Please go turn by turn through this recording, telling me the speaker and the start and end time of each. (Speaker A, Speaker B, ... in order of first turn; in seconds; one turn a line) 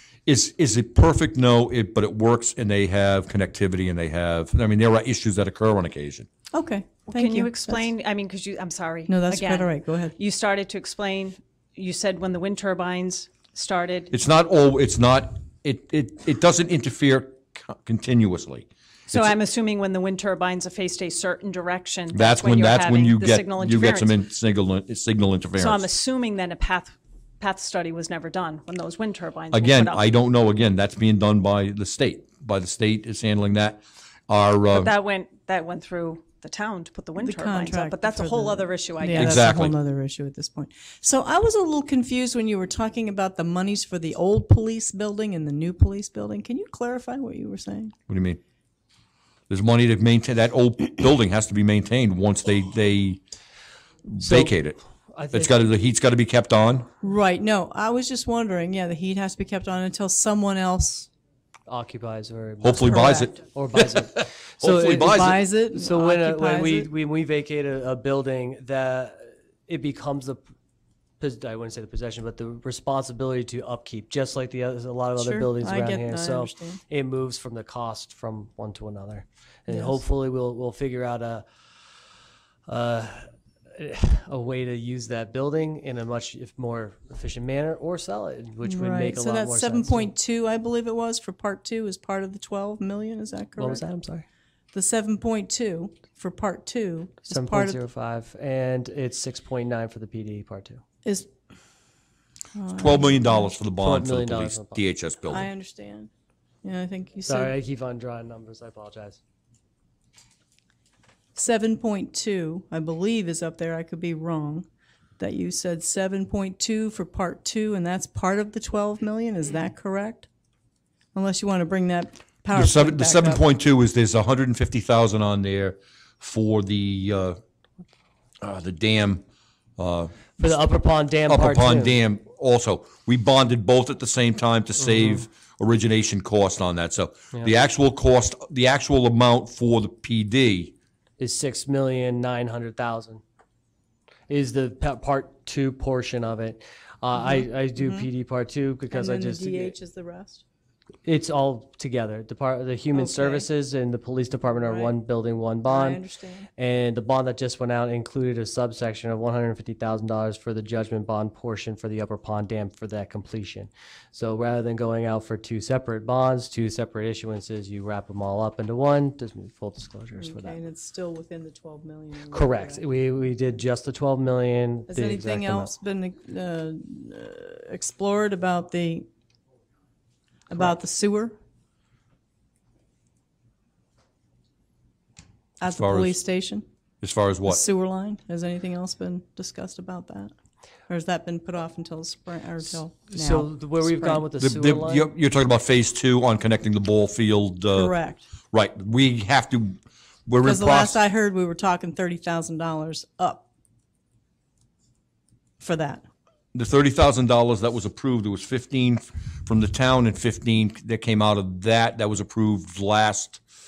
Speaker A: 0.3-6.3
Speaker B: 6.5-7.8
Speaker C: 7.1-14.1
Speaker B: 9.1-10.2
Speaker A: 14.1-19.3
Speaker C: 19.1-24.2
Speaker A: 22.1-25.9
Speaker C: 25.6-30.1
Speaker A: 29.5-34.9
Speaker C: 34.7-39.5
Speaker B: 37.2-48.0
Speaker A: 39.2-39.8
Speaker A: 48.1-48.4
Speaker A: 49.5-53.2
Speaker A: 54.1-54.8
Speaker D: 54.2-54.5
Speaker D: 55.1-55.7
Speaker A: 55.3-56.9
Speaker B: 57.0-61.1
Speaker D: 61.7-70.5
Speaker A: 62.6-63.3
Speaker B: 62.8-63.4
Speaker A: 64.2-65.4
Speaker B: 64.9-66.9
Speaker D: 71.2-81.4
Speaker B: 75.2-76.8
Speaker B: 79.7-80.0
Speaker D: 82.7-90.1
Speaker B: 88.6-93.8
Speaker D: 93.6-94.2
Speaker B: 94.7-97.8
Speaker D: 97.3-100.8
Speaker B: 102.5-103.5
Speaker A: 102.8-105.5
Speaker D: 103.8-104.8
Speaker B: 105.3-106.1
Speaker B: 106.6-107.5
Speaker D: 107.3-109.2
Speaker B: 111.3-114.7
Speaker B: 115.2-120.3
Speaker B: 121.1-123.4
Speaker A: 122.5-127.4
Speaker A: 128.4-129.2
Speaker A: 129.8-130.5
Speaker D: 130.4-132.0
Speaker A: 131.3-140.7
Speaker D: 141.2-143.2
Speaker D: 144.3-149.7
Speaker B: 147.2-148.1
Speaker B: 148.9-150.4
Speaker D: 151.0-156.0
Speaker B: 152.9-153.5
Speaker B: 154.6-155.0
Speaker B: 155.7-156.5
Speaker D: 156.6-170.6
Speaker B: 170.2-172.9
Speaker D: 172.3-175.7
Speaker B: 174.9-179.1
Speaker B: 180.5-181.3
Speaker B: 185.6-186.7
Speaker A: 185.7-186.2
Speaker A: 187.0-187.6
Speaker B: 187.5-190.3
Speaker B: 190.9-194.3
Speaker D: 193.1-195.1
Speaker A: 194.3-197.9
Speaker B: 197.7-198.2
Speaker A: 198.5-201.0
Speaker B: 200.4-203.5
Speaker B: 205.6-206.1
Speaker A: 206.5-213.4